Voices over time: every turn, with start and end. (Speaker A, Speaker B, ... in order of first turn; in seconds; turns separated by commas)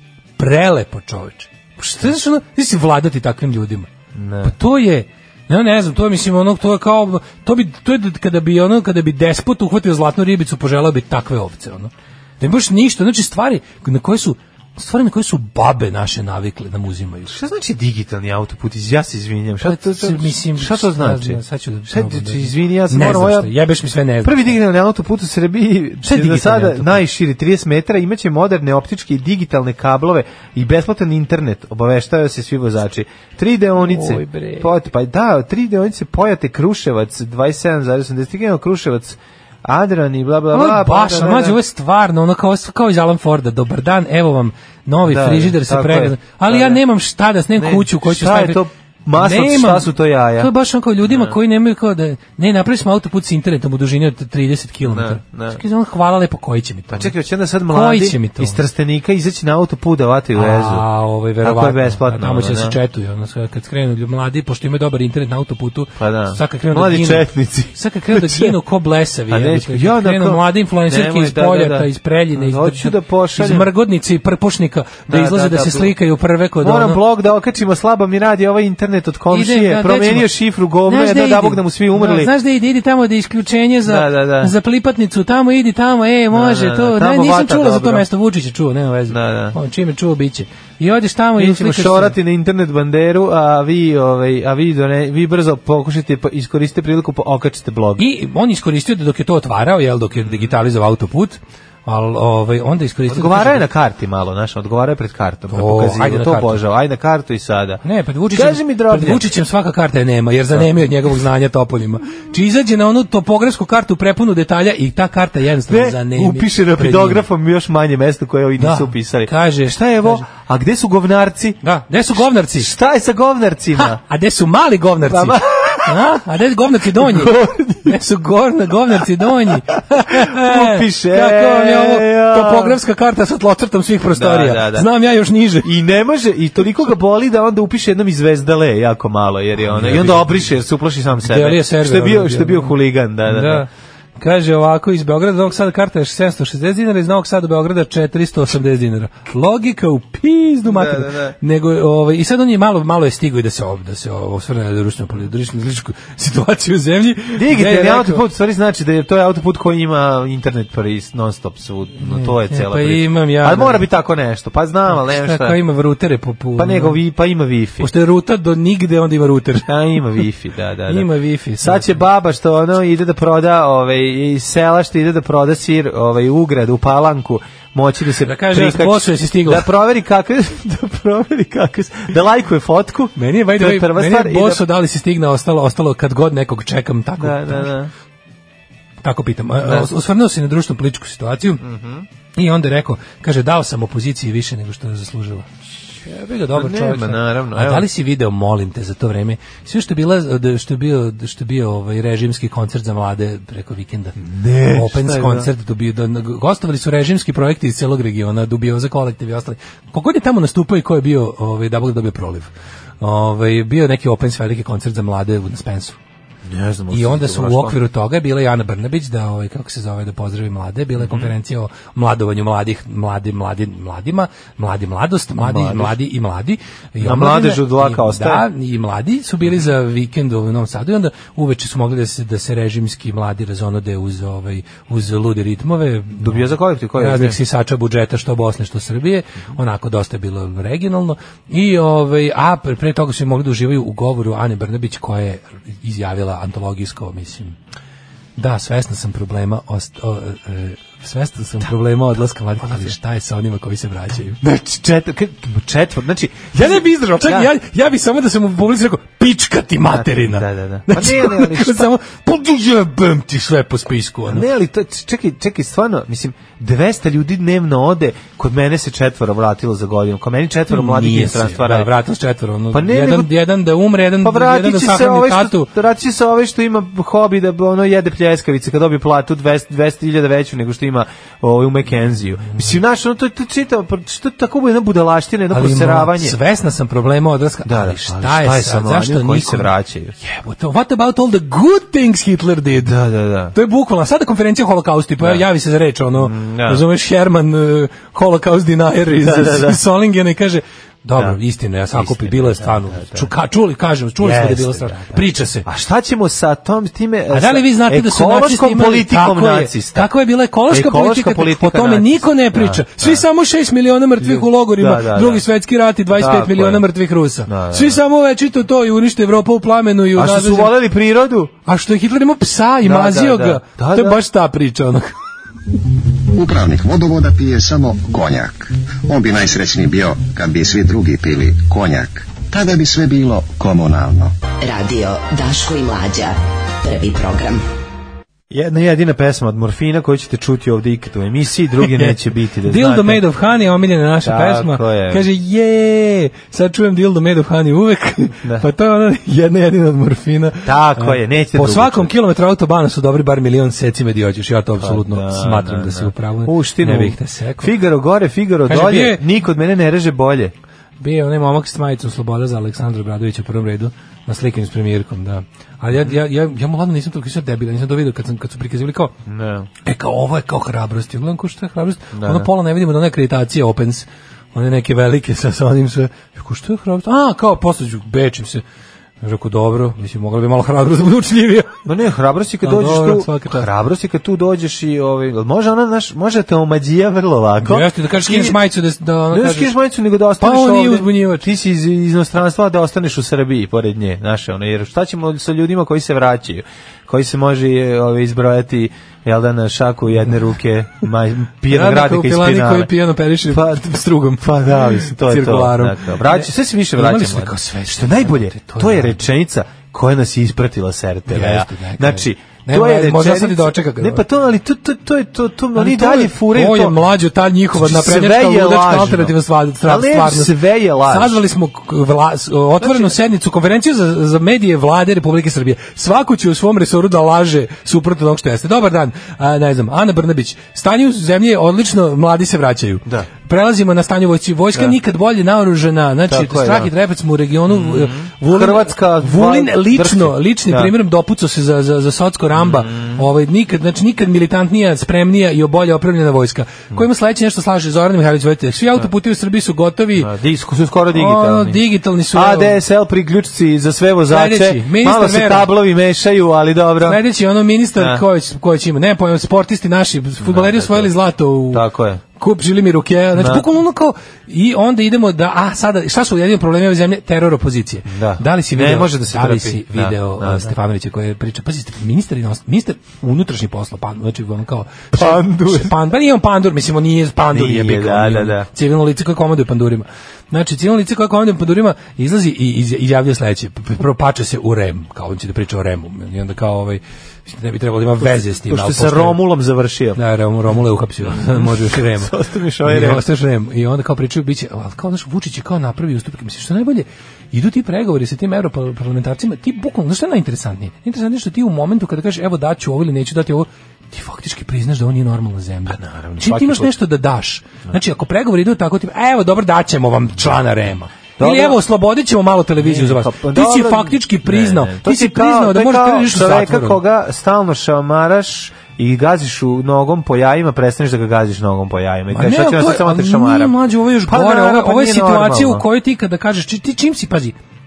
Speaker A: 0.4-3.9, Speaker B: 4.1-4.5, Speaker A: 4.4-17.3, Speaker B: 17.2-23.6, Speaker A: 19.6-24.6, Speaker B: 24.2-41.6, Speaker A: 26.0-27.0, Speaker A: 33.8-34.7, Speaker A: 40.5-48.6, Speaker B: 45.0-46.8, Speaker B: 47.6-50.5, Speaker A: 49.1-57.1, Speaker B: 51.0-51.4, Speaker B: 54.8-55.6, Speaker B: 56.9-60.8, Speaker A: 57.7-58.6, Speaker A: 60.3-77.0, Speaker B: 61.4-62.8, Speaker B: 66.0-68.5, Speaker B: 69.3-73.7, Speaker B: 75.1-75.9, Speaker B: 76.6-82.3, Speaker A: 79.3-80.3, Speaker A: 80.8-92.1, Speaker B: 83.8-84.5, Speaker B: 86.3-88.0, Speaker B: 89.1-89.6, Speaker B: 91.4-98.0, Speaker A: 98.0-103.7, Speaker B: 100.2-100.5, Speaker B: 103.1-107.8, Speaker A: 105.5-106.6, Speaker A: 107.8-117.2, Speaker B: 108.3-109.2, Speaker B: 115.7-121.6, Speaker A: 118.6-120.2, Speaker A: 121.6-122.7, Speaker B: 122.5-124.0, Speaker A: 123.8-135.7, Speaker B: 125.0-126.0, Speaker B: 126.9-128.0, Speaker B: 130.1-132.8, Speaker B: 134.1-134.9, Speaker B: 135.6-143.7, Speaker A: 139.6-140.5, Speaker A: 141.2-142.8, Speaker A: 143.3-158.2, Speaker B: 150.7-151.3, Speaker B: 157.3-165.6, Speaker A: 162.0-163.8, Speaker A: 164.9-167.0, Speaker B: 166.6-167.9, Speaker A: 167.8-169.7, Speaker B: 169.7-171.1, Speaker A: 170.9-172.0, Speaker B: 171.6-184.6, Speaker A: 178.2-179.7, Speaker A: 183.2-187.7, Speaker B: 187.2-187.9, Speaker A: 189.0-191.6, Speaker B: 191.6-192.1, Speaker A: 192.3-195.5, Speaker A: 196.0-204.2, Speaker B: 196.5-197.9, Speaker B: 204.2-205.5, Speaker A: 204.7-212.5, Speaker A: 213.0-216.0, Speaker B: 216.4-217.8, Speaker A: 216.9-247.6, Speaker B: 221.0-221.3, Speaker B: 225.4-226.0, Speaker B: 227.0-228.4, Speaker B: 236.2-237.4, Speaker A: 248.4-254.4, Speaker B: 252.6-252.9, Speaker B: 254.4-257.5, Speaker A: 256.5-264.4, Speaker B: 259.8-261.9, Speaker B: 264.3-271.9, Speaker A: 270.7-275.7, Speaker B: 272.7-273.3, Speaker B: 274.2-286.4, Speaker A: 282.5-282.8, Speaker A: 285.5-292.9, Speaker B: 287.6-290.1, Speaker B: 292.8-293.6, Speaker A: 293.5-305.6, Speaker B: 296.2-296.8, Speaker B: 299.1-299.8, Speaker B: 301.9-303.3, Speaker B: 304.2-310.1, Speaker A: 307.3-320.7, Speaker B: 310.7-313.2, Speaker B: 314.2-315.4, Speaker B: 316.1-316.9, Speaker B: 317.5-318.0, Speaker B: 320.1-321.5, Speaker A: 321.6-325.1, Speaker B: 322.8-324.2, Speaker C: 326.3-334.3, Speaker D: 334.6-337.6, Speaker B: 338.5-343.2, Speaker A: 342.6-357.7, Speaker B: 344.2-345.2, Speaker B: 350.6-352.1, Speaker B: 354.8-360.5, Speaker A: 358.7-359.2, Speaker A: 361.0-369.1, Speaker B: 369.2-369.7, Speaker A: 369.8-378.6, Speaker B: 372.1-372.5, Speaker A: 379.2-381.8, Speaker B: 381.9-388.6, Speaker A: 382.6-383.7, Speaker A: 387.6-389.7, Speaker B: 389.3-402.9, Speaker A: 390.4-391.5, Speaker A: 401.7-409.2, Speaker B: 403.5-403.8, Speaker B: 404.4-417.0, Speaker A: 411.3-414.2, Speaker A: 415.8-450.3, Speaker B: 417.7-421.4, Speaker B: 422.8-423.1, Speaker B: 436.3-436.9, Speaker B: 437.7-440.9, Speaker B: 442.5-443.2, Speaker B: 450.2-451.8, Speaker A: 451.1-452.8, Speaker B: 452.3-457.2, Speaker A: 454.3-455.7, Speaker A: 457.0-461.8, Speaker B: 457.9-458.2, Speaker B: 460.4-461.1, Speaker B: 461.7-462.2, Speaker A: 462.4-489.4, Speaker B: 463.3-463.6, Speaker B: 468.1-470.7, Speaker B: 475.1-475.9, Speaker B: 477.5-478.7, Speaker B: 488.2-490.2, Speaker A: 490.1-517.0, Speaker B: 491.2-493.2, Speaker B: 505.9-506.9, Speaker B: 511.4-511.8, Speaker B: 512.8-525.8, Speaker A: 522.3-527.5